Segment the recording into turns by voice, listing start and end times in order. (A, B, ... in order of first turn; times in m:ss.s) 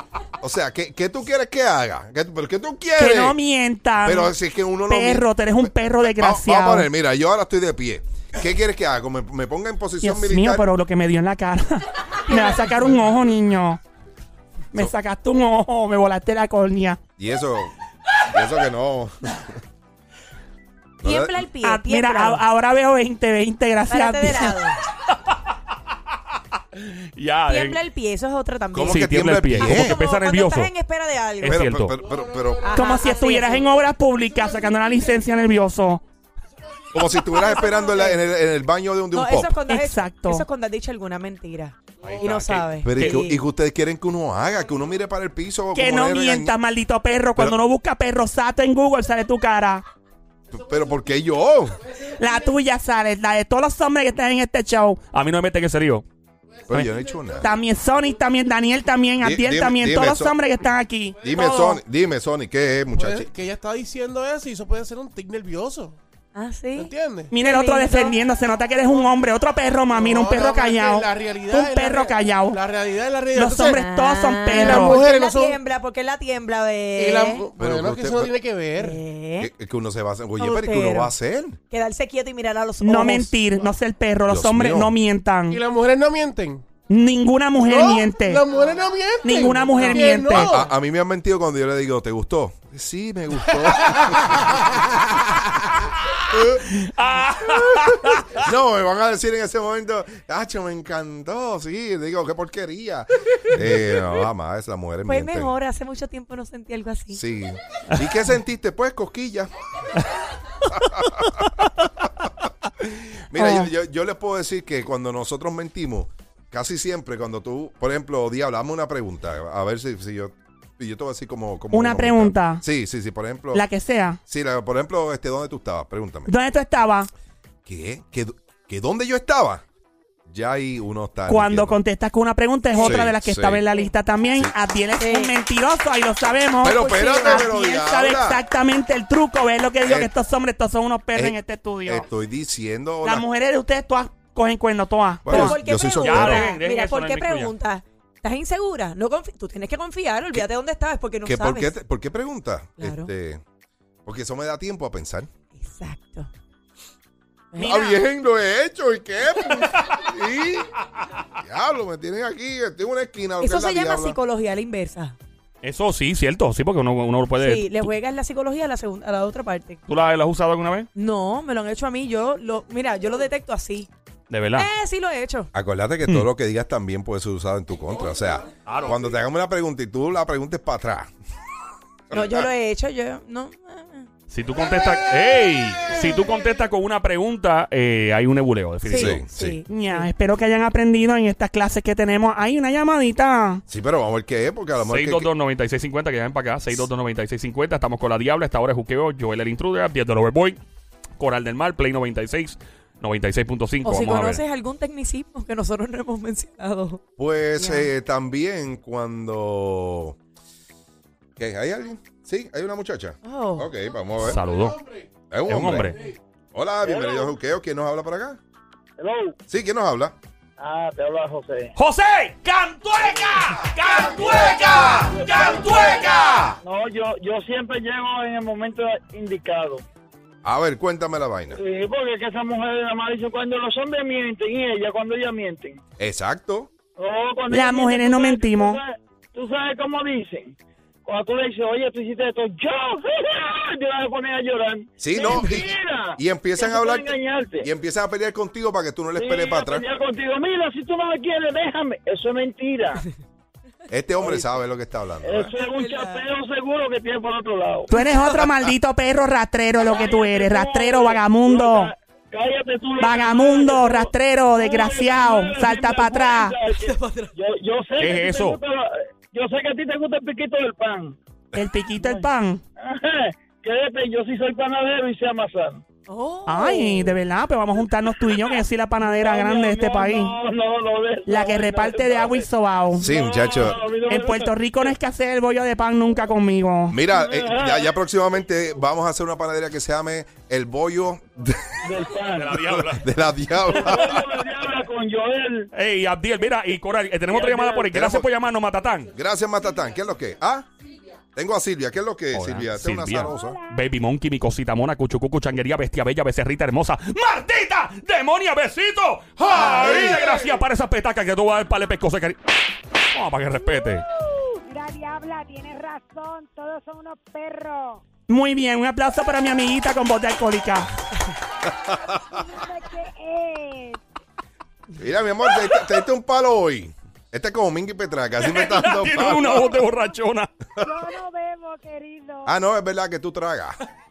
0:00.4-0:03.4 A
0:03.0-0:04.3 B
0:04.0-0:10.6 A
0:04.9-0:06.9 B
0:10.0-0:13.8 B
0:12.3-0:13.0 C
0:14.7-0:17.0 B
0:17.2-0:19.5 A
0:21.0-0:21.4 A
0:21.0-0:22.4 C
0:21.6-0:24.6 B
0:23.9-0:24.8 C
0:25.1-0:25.5 D
0:26.8-0:27.8 D
0:27.5-0:31.6 C
0:28.7-0:30.0 A
0:28.9-0:30.7 D
0:31.4-0:32.0 D
0:31.4-0:32.8 A
0:32.6-0:33.7 C
0:32.7-0:36.0 B
0:36.9-0:39.6 A
0:37.6-0:38.2 C
0:39.1-0:43.4 C
0:39.7-0:40.4 B
0:42.0-0:42.5 E
0:42.0-0:43.2 D
0:42.8-0:46.5 A
0:45.7-0:49.8 B
0:50.5-0:51.8 A
0:52.0-0:55.0 B
0:55.1-0:56.0 D
0:56.7-0:57.5 A
0:56.7-1:01.8 B
0:59.2-1:00.3 A
1:01.2-1:03.3 A
1:02.9-1:06.0 E
1:06.3-1:08.2 C
1:06.8-1:07.3 E
1:07.3-1:12.6 B
1:09.9-1:13.9 E
1:13.4-1:15.0 B
1:13.6-1:17.5 C
1:14.5-1:15.6 E
1:17.0-1:19.0 E
1:17.6-1:18.3 A
1:18.8-1:19.5 C
1:19.4-1:21.6 A
1:20.4-1:21.1 C
1:21.7-1:23.3 C
1:22.8-1:25.6 B
1:24.3-1:25.0 A
1:25.5-1:26.6 E
1:26.9-1:28.4 B
1:27.6-1:30.7 E
1:29.2-1:30.5 B
1:29.8-1:30.2 C
1:30.3-1:34.7 A
1:33.9-1:35.5 E
1:36.7-1:38.4 D
1:38.4-1:45.6 A
1:45.1-1:47.2 C
1:47.1-1:49.5 A
1:50.6-1:51.7 A
1:52.8-2:03.6 A
1:53.4-1:53.7 B
2:01.7-2:02.6 B
2:03.5-2:04.2 B
2:04.3-2:06.3 A
2:06.3-2:07.1 B
2:07.7-2:09.6 A
2:10.3-2:11.8 A
2:11.3-2:22.1 B
2:12.7-2:13.0 C
2:12.8-2:13.6 A
2:15.0-2:15.3 C
2:16.6-2:18.4 A
2:16.8-2:17.4 C
2:19.8-2:20.1 A
2:21.2-2:23.2 A
2:23.0-2:25.6 B
2:25.2-2:26.5 A
2:25.3-2:31.8 C
2:26.0-2:27.5 D
2:31.2-2:33.4 A
2:32.8-2:33.1 C
2:34.1-2:35.3 A
2:35.6-2:36.3 C
2:37.5-2:37.8 C
2:37.6-2:40.7 A
2:37.6-2:38.0 B
2:41.4-2:44.2 A
2:43.4-2:45.2 C
2:45.6-2:47.7 D
2:47.4-2:49.8 C
2:49.9-2:50.9 D
2:51.0-2:53.9 C
2:54.3-2:54.7 D
2:54.5-2:55.5 C
2:55.5-3:01.1 A
2:58.7-2:59.0 D
3:02.1-3:02.4 A
3:02.1-3:04.1 C
3:04.3-3:09.2 D
3:08.8-3:10.1 C
3:08.9-3:09.6 A
3:09.7-3:13.6 B
3:13.7-3:15.3 A
3:14.8-3:20.6 D
3:21.2-3:24.4 D
3:23.8-3:27.0 C
3:27.2-3:30.2 A
3:27.6-3:27.9 C
3:31.4-3:34.4 A
3:33.2-3:33.7 C
3:34.2-3:34.8 D
3:35.3-3:36.0 A
3:35.5-3:36.0 D
3:36.5-3:38.4 A
3:36.8-3:37.4 F
3:39.0-3:39.4 F
3:39.5-3:40.2 A
3:40.6-3:41.8 F
3:41.8-3:46.6 D
3:44.3-3:46.1 F
3:46.6-3:49.8 F
3:50.4-3:51.6 A
3:51.5-3:55.8 F
3:56.0-3:56.7 A
3:57.0-4:07.7 F
3:57.5-3:58.8 B
4:05.0-4:09.8 A
4:09.2-4:13.0 F
4:13.9-4:15.5 A
4:14.2-4:14.6 F
4:15.2-4:17.9 F
4:15.6-4:16.3 C
4:17.9-4:21.9 B
4:18.0-4:18.5 C
4:19.8-4:31.2 F
4:23.0-4:26.6 B
4:26.7-4:27.3 C
4:28.0-4:28.6 D
4:31.5-4:32.6 B
4:32.0-4:32.2 F
4:32.8-4:35.8 F
4:36.1-4:37.2 C
4:36.5-4:40.3 B
4:39.0-4:42.4 F
4:41.3-4:43.1 B
4:43.0-4:43.8 A
4:43.0-4:44.9 F
4:44.0-4:47.0 B
4:46.9-4:51.8 A
4:47.1-4:47.9 F
4:51.8-4:52.5 F
4:52.3-4:53.1 D
4:52.6-4:54.3 A
4:53.7-4:55.7 F
4:55.7-4:59.1 D
4:57.3-4:57.9 F
4:57.9-4:58.3 A
4:59.1-5:00.7 A
5:01.3-5:03.6 A
5:02.3-5:12.4 D
5:09.5-5:10.4 E
5:13.1-5:14.1 D
5:14.5-5:18.0 G
5:18.3-5:20.9 B
5:21.9-5:24.0 G
5:25.0-5:29.8 A
5:28.4-5:30.6 D
5:29.8-5:30.1 G
5:30.8-5:32.5 G
5:32.4-5:33.8 A